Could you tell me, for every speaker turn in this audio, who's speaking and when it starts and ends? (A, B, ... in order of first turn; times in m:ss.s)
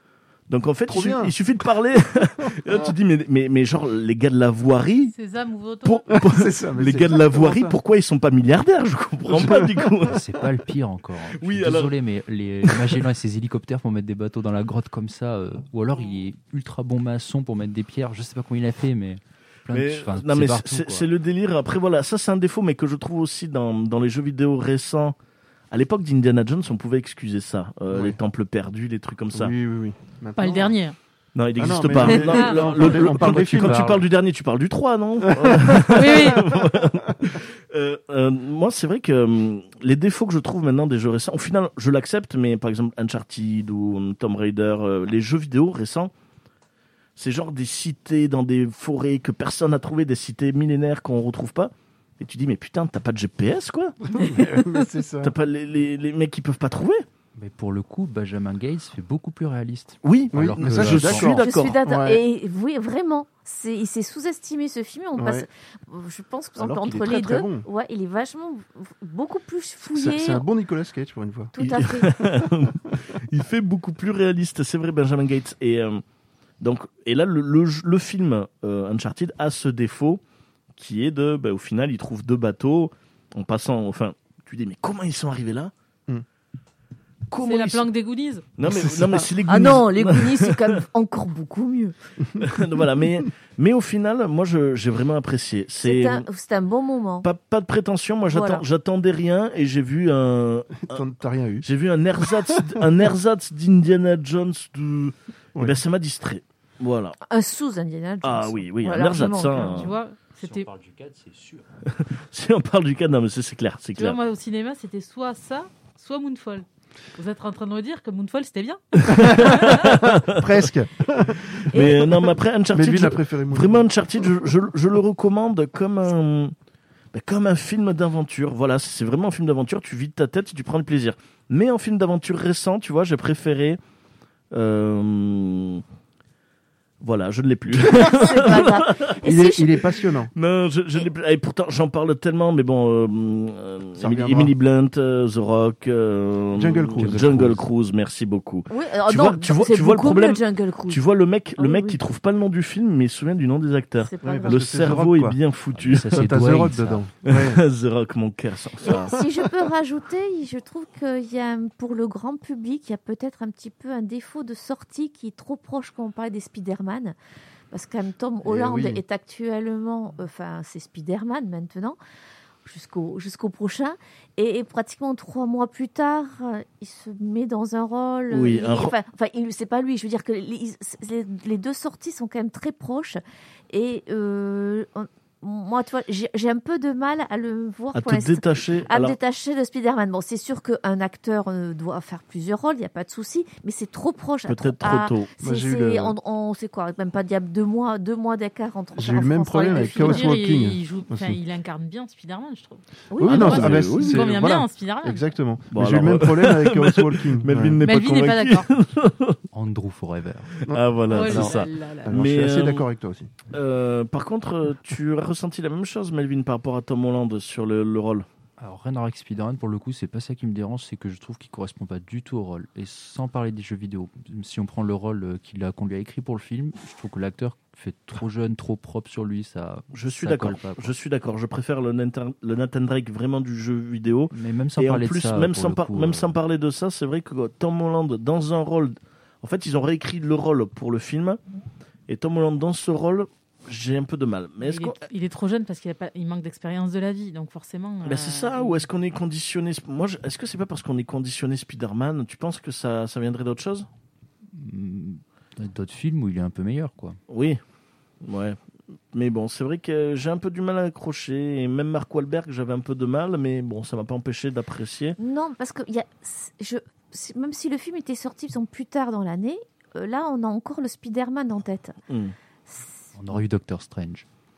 0:00.5-0:05.1 A
0:00.9-0:01.3 B
0:02.4-0:02.7 B
0:05.1-0:06.2 C
0:05.8-0:10.2 A
0:06.1-0:07.8 B
0:09.3-0:09.9 B
0:10.0-0:21.0 D
0:11.4-0:11.9 A
0:19.7-0:25.1 A
0:25.7-0:29.5 A
0:27.9-0:28.2 B
0:29.3-0:30.7 B
0:30.4-0:31.0 C
0:31.3-0:46.1 A
0:31.5-0:33.9 B
0:32.2-0:32.6 C
0:33.0-0:34.0 D
0:35.3-0:37.1 B
0:36.0-0:36.4 C
0:47.2-0:53.9 A
0:54.1-0:55.3 B
0:54.3-0:54.6 C
0:55.2-0:57.0 A
0:57.4-1:01.3 D
1:00.0-1:01.8 A
1:00.3-1:02.2 B
1:01.4-1:10.4 E
1:05.2-1:05.5 B
1:06.6-1:07.6 B
1:09.9-1:11.5 B
1:11.5-1:12.2 E
1:11.6-1:16.0 A
1:12.4-1:12.9 B
1:16.6-1:20.2 A
1:20.8-1:25.7 A
1:27.3-1:27.9 A
1:27.4-1:28.5 C
1:28.6-1:30.8 A
1:28.6-1:29.3 B
1:29.4-1:31.9 E
1:32.4-1:36.3 A
1:35.8-1:37.3 E
1:37.2-1:41.0 A
1:38.3-1:38.6 E
1:40.8-1:41.6 B
1:41.6-1:47.2 A
1:42.2-1:42.8 B
1:47.3-1:49.8 E
1:48.2-1:50.0 A
1:49.6-1:50.7 C
1:50.4-1:51.6 D
1:51.9-1:54.2 A
1:54.0-1:56.6 C
1:57.2-1:59.3 C
1:59.0-2:00.6 A
1:59.1-2:01.6 B
2:01.5-2:06.5 A
2:01.7-2:02.2 E
2:02.7-2:03.8 B
2:07.1-2:13.8 A
2:14.5-2:15.8 A
2:17.0-2:19.5 A
2:17.9-2:19.7 E
2:19.2-2:20.3 B
2:20.3-2:36.3 A
2:24.0-2:24.5 B
2:26.6-2:27.6 B
2:27.3-2:27.6 D
2:28.7-2:31.0 E
2:31.6-2:32.0 E
2:34.0-2:34.9 E
2:34.2-2:35.4 B
2:35.7-2:37.0 D
2:36.0-2:37.6 B
2:37.2-2:39.1 A
2:38.8-2:47.1 E
2:38.8-2:39.3 B
2:47.7-2:52.0 E
2:48.4-2:49.0 B
2:52.6-3:20.3 E
2:58.3-2:58.9 A
3:07.9-3:09.2 A
3:14.4-3:15.3 A
3:15.4-3:16.1 B
3:19.0-3:21.4 B
3:19.7-3:25.3 C
3:23.1-3:27.8 B
3:23.2-3:24.4 A
3:25.7-3:29.4 A
3:27.8-3:28.7 C
3:29.5-3:30.5 D
3:30.6-3:32.8 A
3:30.7-3:33.3 B
3:31.1-3:32.2 C
3:33.5-3:38.2 A
3:38.6-3:50.9 D
3:49.9-4:01.4 A
3:54.3-3:56.3 D
4:02.1-4:05.0 A
4:04.6-4:08.9 C
4:08.0-4:13.9 A
4:14.5-4:17.2 D
4:17.3-4:17.6 A
4:18.2-4:18.6 A
4:19.1-4:25.2 A
4:25.2-4:32.0 E
4:32.1-4:32.3 A
4:33.1-4:34.2 D